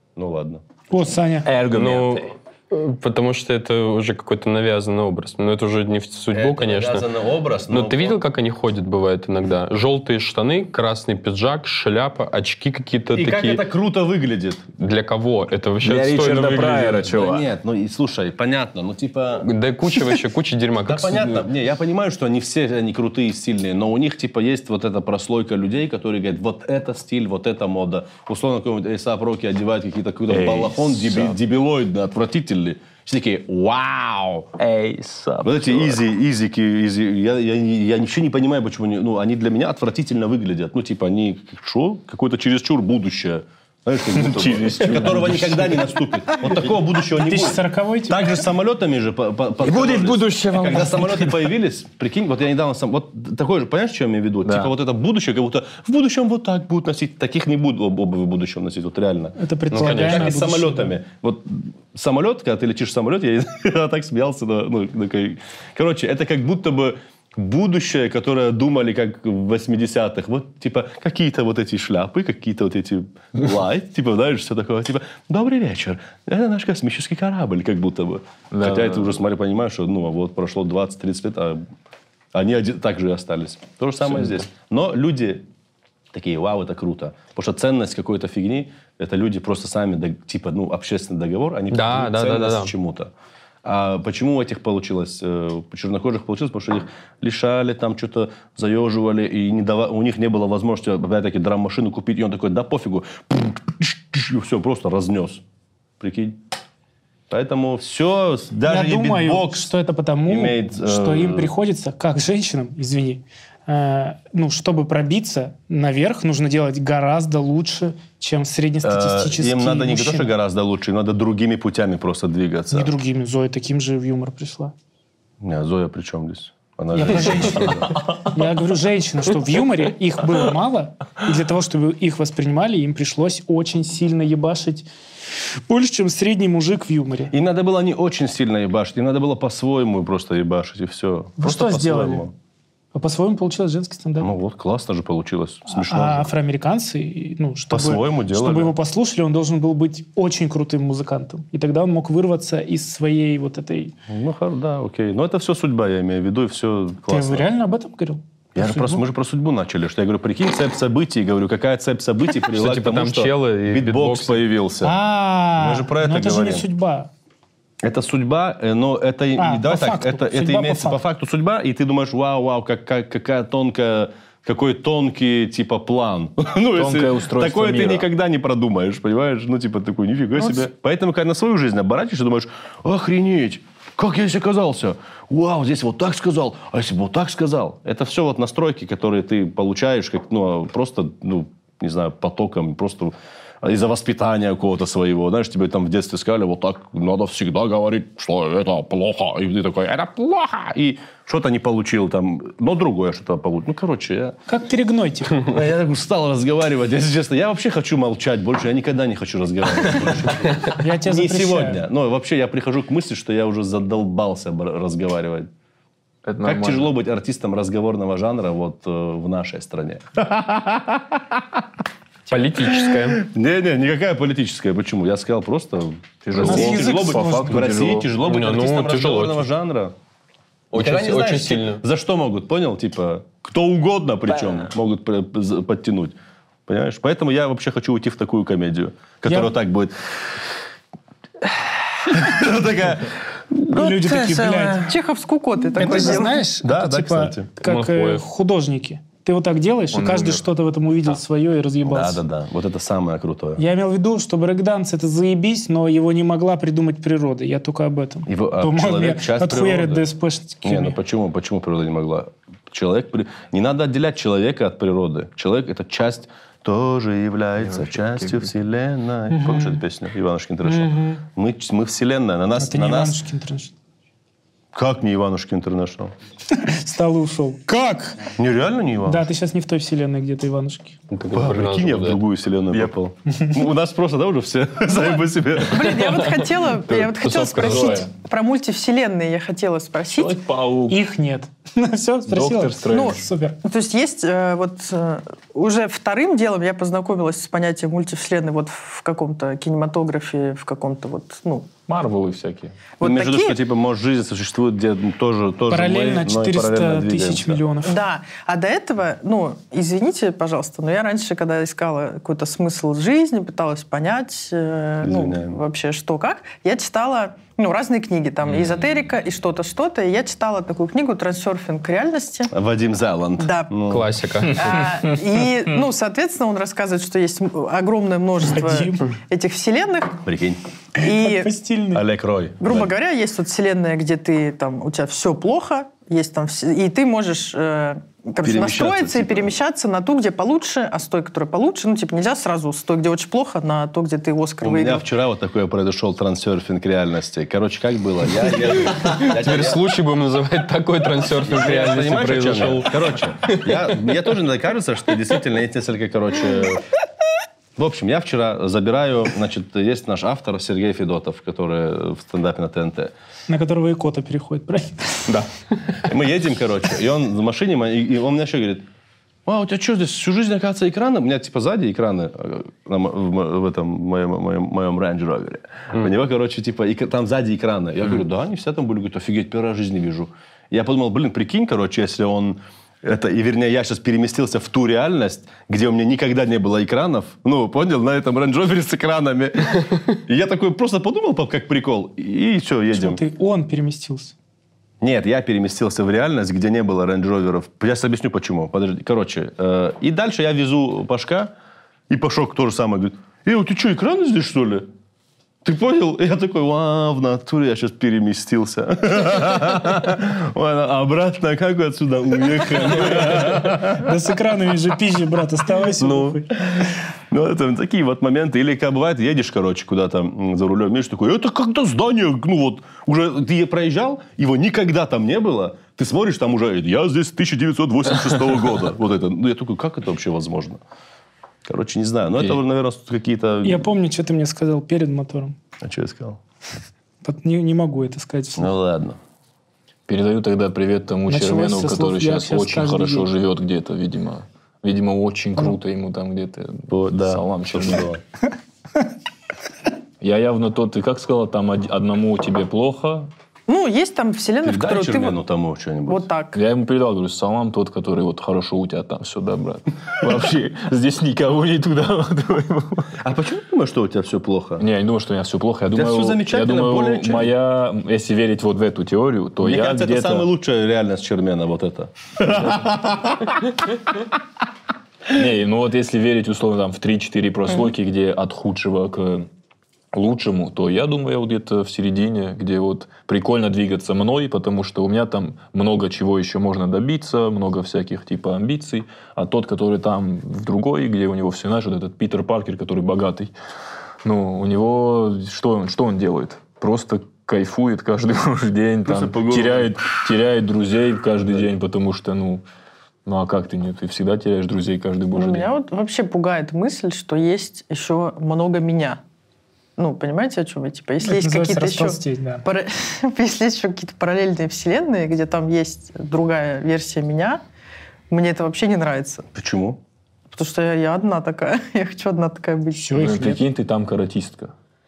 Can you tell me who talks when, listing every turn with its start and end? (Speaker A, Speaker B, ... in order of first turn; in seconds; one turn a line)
Speaker A: 0.1-0.6
Speaker B: 0.9-1.5
Speaker C: 1.4-2.3
Speaker D: 1.7-7.1
Speaker A: 6.3-8.2
Speaker D: 7.7-13.6
Speaker A: 13.1-14.6
Speaker D: 14.8-17.0
Speaker C: 15.8-17.4
Speaker A: 16.9-19.5
Speaker D: 19.4-21.4
Speaker A: 20.8-34.5
Speaker C: 30.3-31.4
Speaker C: 34.6-36.0
Speaker A: 35.4-81.6
Speaker C: 44.1-45.9
Speaker B: 47.1-48.3
Speaker C: 49.6-51.5
Speaker C: 54.4-54.7
Speaker B: 59.4-60.9
Speaker D: 59.7-60.4
Speaker C: 78.5-79.2
Speaker A: 82.3-85.4
Speaker A: 86.1-93.1
Speaker D: 91.7-92.7
Speaker A: 93.6-105.4
Speaker A: 106.0-106.4
Speaker A: 107.3-109.7
Speaker B: 108.7-120.3
Speaker A: 110.3-111.5
Speaker A: 118.8-122.9
Speaker B: 122.7-124.7
Speaker A: 125.4-128.1
Speaker B: 126.9-134.9
Speaker B: 135.7-137.3
Speaker A: 137.3-142.3
Speaker B: 141.4-142.2
Speaker B: 142.9-144.3
Speaker A: 144.2-146.3
Speaker B: 145.7-153.9
Speaker A: 147.7-148.7
Speaker A: 154.1-157.5
Speaker B: 157.1-159.0
Speaker A: 158.6-165.0
Speaker D: 162.5-164.4
Speaker B: 164.8-167.1
Speaker A: 165.6-166.7
Speaker A: 167.8-204.4
Speaker B: 169.4-171.0
Speaker C: 176.7-178.1
Speaker B: 204.5-205.4
Speaker A: 205.4-215.5
Speaker B: 210.8-211.8
Speaker C: 216.2-216.9
Speaker A: 216.4-221.6
Speaker D: 222.3-223.2
Speaker A: 222.6-229.9
Speaker C: 226.3-228.1
Speaker B: 226.4-227.6
Speaker D: 228.2-229.5
Speaker D: 230.7-231.8
Speaker A: 230.7-236.2
Speaker A: 236.7-239.9
Speaker B: 239.3-239.5
Speaker A: 241.4-244.9
Speaker B: 243.7-244.8
Speaker E: 244.8-246.4
Speaker B: 245.8-252.2
Speaker A: 245.8-247.5
Speaker D: 247.6-248.2
Speaker C: 249.9-250.4
Speaker A: 251.8-253.6
Speaker B: 253.6-260.9
Speaker A: 258.3-260.1
Speaker A: 260.6-273.2
Speaker C: 267.6-268.5
Speaker B: 269.3-269.8
Speaker B: 270.6-271.2
Speaker B: 272.6-273.7
Speaker A: 274.7-276.1
Speaker B: 276.5-278.3
Speaker A: 278.4-279.3
Speaker B: 279.0-281.0
Speaker D: 281.1-282.2
Speaker A: 281.3-286.2
Speaker E: 284.9-290.4
Speaker C: 286.9-288.1
Speaker C: 290.1-291.0
Speaker B: 290.9-293.6
Speaker C: 292.3-293.2
Speaker E: 292.9-301.7
Speaker C: 301.9-302.7
Speaker E: 303.0-303.6
Speaker A: 303.0-307.6
Speaker B: 305.7-308.0
Speaker E: 307.8-322.5
Speaker A: 315.0-315.6
Speaker A: 322.5-324.1
Speaker E: 323.4-323.7
Speaker D: 323.9-324.8
Speaker E: 324.5-330.2
Speaker B: 328.5-329.1
Speaker A: 330.2-330.6
Speaker E: 331.0-331.5
Speaker B: 331.0-332.0
Speaker A: 331.9-332.9
Speaker E: 332.6-345.1
Speaker A: 338.4-339.5
Speaker A: 344.6-349.8
Speaker D: 348.9-354.2
Speaker A: 351.4-356.8
Speaker A: 357.8-363.1
Speaker B: 363.5-365.3
Speaker A: 366.0-368.8
Speaker A: 369.4-393.2
Speaker B: 392.9-394.3
Speaker A: 395.0-401.5
Speaker A: 402.1-404.9
Speaker A: 405.6-414.2
Speaker B: 413.8-416.5
Speaker A: 416.0-430.8
Speaker A: 431.6-433.9
Speaker B: 433.6-435.6
Speaker A: 435.8-436.4
Speaker B: 437.2-438.7
Speaker A: 438.6-439.2
Speaker C: 440.1-448.1
Speaker B: 441.3-443.3
Speaker A: 446.9-448.2
Speaker C: 450.2-453.3
Speaker E: 453.7-455.4
Speaker A: 454.6-456.3
Speaker E: 456.1-456.6
Speaker C: 456.5-463.1
Speaker A: 463.2-464.8
Speaker C: 464.8-470.5
Speaker A: 465.9-467.5
Speaker A: 469.6-473.8
Speaker C: 475.3-479.5
Speaker C: 480.1-493.5
Speaker C: 494.2-502.6
Speaker A: 499.0-500.1
Speaker C: 503.2-505.7
Speaker E: 505.3-509.2
Speaker E: 510.0-517.6
Speaker B: 511.2-512.6
Speaker E: 518.3-519.5
Speaker A: 519.5-520.0
Speaker E: 520.5-523.3
Speaker B: 523.0-523.6
Speaker C: 523.1-524.7